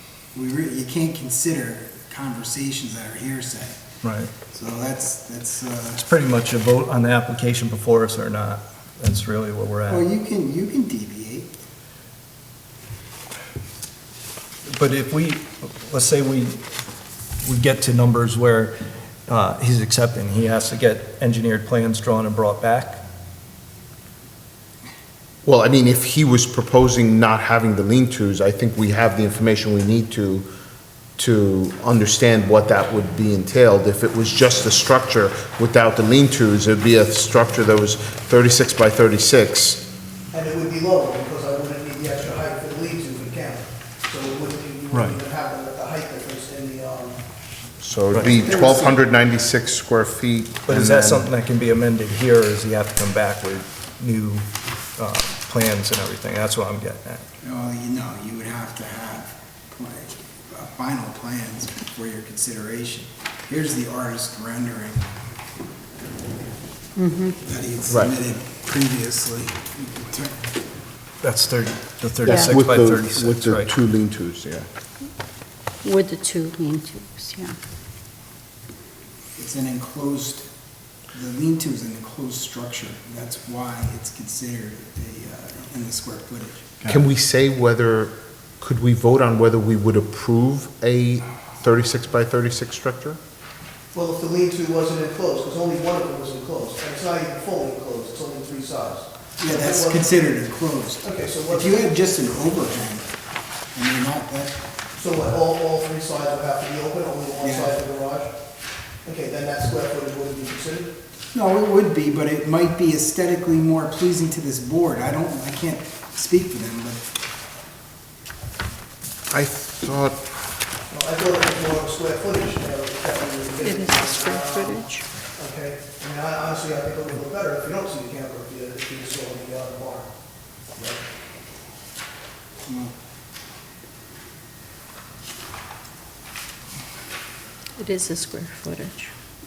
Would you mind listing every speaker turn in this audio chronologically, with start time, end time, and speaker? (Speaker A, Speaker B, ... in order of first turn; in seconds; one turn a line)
Speaker A: 0.3-3.8
Speaker B: 4.0-4.3
Speaker A: 4.5-6.0
Speaker B: 6.0-10.1
Speaker A: 9.9-11.5
Speaker B: 14.7-16.6
Speaker B: 17.4-18.7
Speaker B: 19.3-23.0
Speaker C: 25.4-30.5
Speaker C: 31.2-39.8
Speaker D: 40.3-47.2
Speaker B: 44.9-45.2
Speaker C: 47.8-51.3
Speaker B: 48.1-48.4
Speaker A: 48.2-49.0
Speaker B: 50.7-57.3
Speaker A: 57.4-65.1
Speaker E: 67.0-67.4
Speaker A: 67.4-70.4
Speaker B: 71.2-73.7
Speaker C: 72.2-74.7
Speaker E: 72.2-72.5
Speaker E: 75.8-77.6
Speaker A: 79.4-80.5
Speaker A: 81.1-86.8
Speaker C: 86.9-93.2
Speaker D: 93.9-100.1
Speaker A: 99.4-103.1
Speaker D: 101.0-101.9
Speaker A: 103.7-104.6
Speaker D: 105.0-108.3
Speaker A: 107.4-107.8
Speaker D: 109.0-110.9
Speaker A: 111.3-117.0
Speaker C: 119.3-120.2
Speaker D: 120.9-130.1
Speaker E: 123.6-125.1
Speaker D: 130.8-131.0
Speaker A: 132.7-132.9
Speaker E: 137.8-139.1